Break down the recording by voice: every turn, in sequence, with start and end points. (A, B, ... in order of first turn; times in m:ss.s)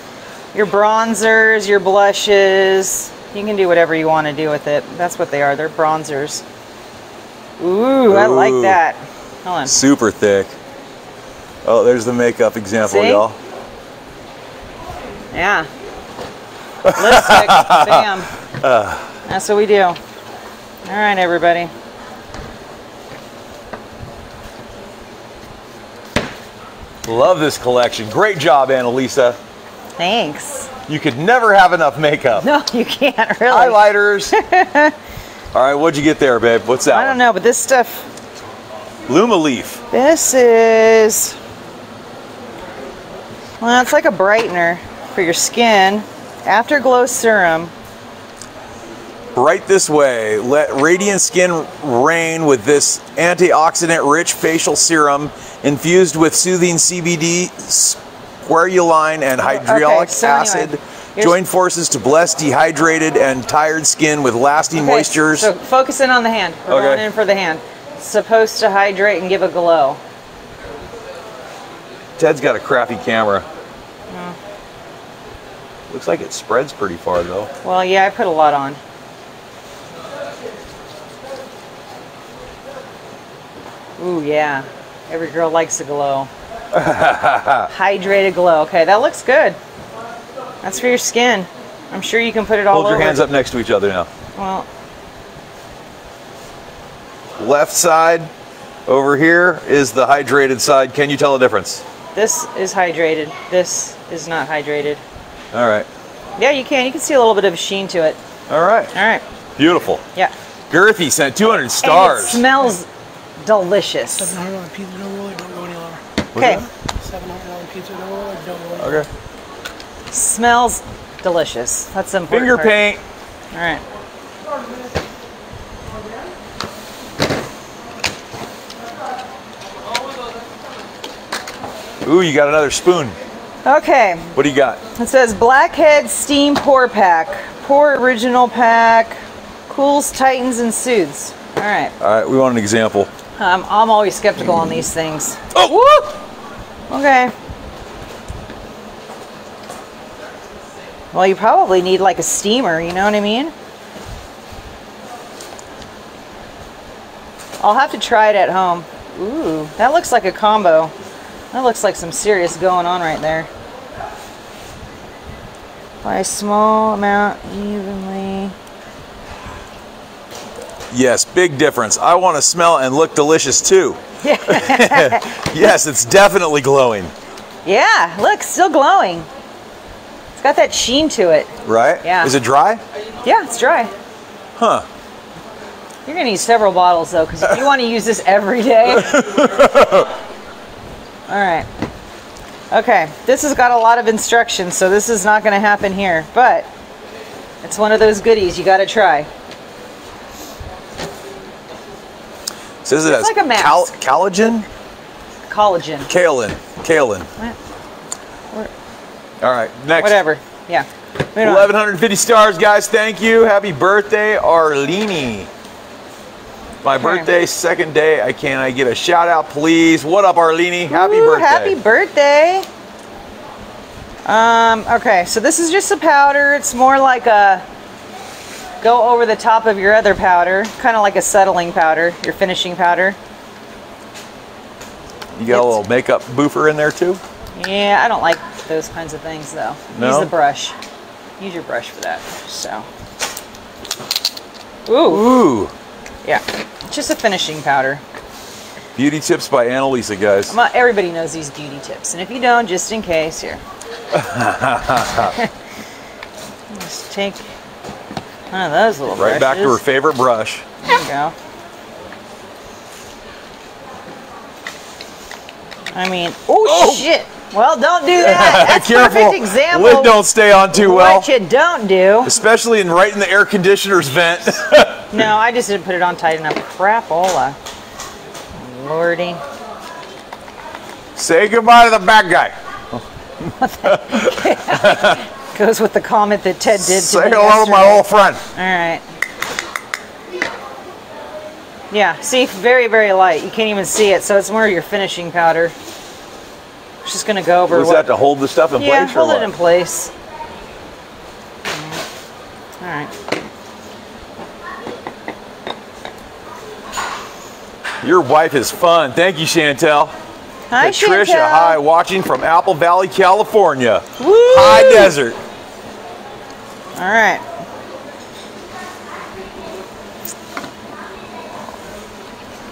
0:00.5-0:06.4 A
0:07.6-0:09.7 A
0:08.1-0:08.8 B
0:09.7-0:10.5 B
0:11.6-0:13.4 B
0:12.8-0:13.2 A
0:15.3-0:15.7 A
0:16.8-0:19.1 B
0:16.9-0:18.3 A
0:19.2-0:20.0 A
0:20.8-0:21.7 A
0:27.0-0:29.4 B
0:30.0-0:30.7 A
0:30.9-0:32.4 B
0:32.4-0:34.9 A
0:33.5-0:34.3 B
0:35.5-0:37.2 B
0:36.9-0:38.1 A
0:39.1-0:39.8 B
0:39.9-0:41.4 A
0:43.6-0:47.7 A
0:49.3-1:05.5 B
0:59.4-1:01.4 A
1:04.7-1:10.0 A
1:06.7-1:07.0 B
1:12.2-1:13.4 B
1:14.1-1:14.4 A
1:15.9-1:17.5 B
1:17.6-1:18.8 A
1:24.0-1:26.3 A
1:26.7-1:27.7 B
1:27.7-1:29.6 A
1:30.6-1:33.2 A
1:32.7-1:34.1 B
1:34.4-1:34.6 A
1:37.4-1:38.3 B
1:38.8-1:41.8 B
1:42.1-1:45.0 A
1:45.5-1:45.9 B
1:46.4-1:48.2 A
1:48.5-1:48.9 B
1:48.9-1:49.2 A
1:49.6-1:50.0 B
1:50.7-1:52.4 B
1:51.8-1:52.9 A
1:53.4-1:54.4 A
1:54.2-1:56.0 C
1:56.3-1:56.7 B
1:56.4-1:56.6 A
1:57.0-1:59.0 C
1:58.8-1:59.1 B
2:00.1-2:02.8 A
2:02.3-2:03.0 B
2:03.5-2:03.8 A
2:12.0-2:13.2 B
2:13.6-2:14.3 A
2:14.3-2:14.8 B
2:14.9-2:21.9 A
2:22.0-2:23.1 B
2:23.4-2:26.2 A
2:26.9-2:27.3 A
2:31.1-2:33.5 A
2:37.6-2:40.9 A
2:41.5-2:43.5 A
2:46.0-2:48.5 A
2:50.9-2:57.1 B
2:54.2-2:55.5 A
2:57.6-2:59.3 A
3:00.3-3:02.3 A
3:01.6-3:02.8 B
3:03.2-3:03.9 A
3:04.6-3:04.8 B
3:06.0-3:09.3 A
3:08.9-3:10.1 B
3:11.3-3:11.7 A
3:12.7-3:16.7 A
3:17.6-3:19.3 A
3:22.8-3:24.6 B
3:23.0-3:23.9 A
3:25.5-3:26.1 A
3:26.1-3:27.3 B
3:29.4-3:30.2 B
3:30.0-3:31.7 A
3:31.4-3:35.5 B
3:36.8-3:41.8 B
3:37.0-3:37.3 A
3:40.9-3:42.7 A
3:44.2-3:47.6 A
3:48.8-3:53.2 A
3:55.4-3:57.2 B
3:55.5-3:55.8 A
3:57.6-4:00.7 A
3:59.9-4:00.3 B
4:01.4-4:02.9 A
4:04.9-4:05.2 A
4:05.1-4:05.7 B
4:06.2-4:08.0 A
4:09.0-4:10.5 B
4:10.5-4:13.6 A
4:14.1-4:15.3 B
4:16.7-4:17.4 A
4:18.5-4:19.8 A
4:19.1-4:20.6 B
4:20.8-4:21.3 A
4:25.9-4:30.2 A
4:26.6-4:27.0 B
4:28.2-4:31.3 B
4:30.7-4:32.3 A
4:32.2-4:35.2 B
4:35.1-4:37.6 A
4:38.6-4:39.4 A
4:41.2-4:43.0 B
4:43.6-4:49.0 A
4:43.8-4:45.2 B
4:46.7-4:48.4 B
4:51.9-4:55.7 A
4:57.0-4:58.1 A
4:57.7-4:59.5 B
4:58.8-5:00.1 A
5:01.7-5:02.0 A
5:02.8-5:03.1 A
5:08.0-5:10.1 B
5:10.7-5:11.8 A
5:10.8-5:15.4 B
5:14.2-5:15.1 A
5:17.0-5:17.4 A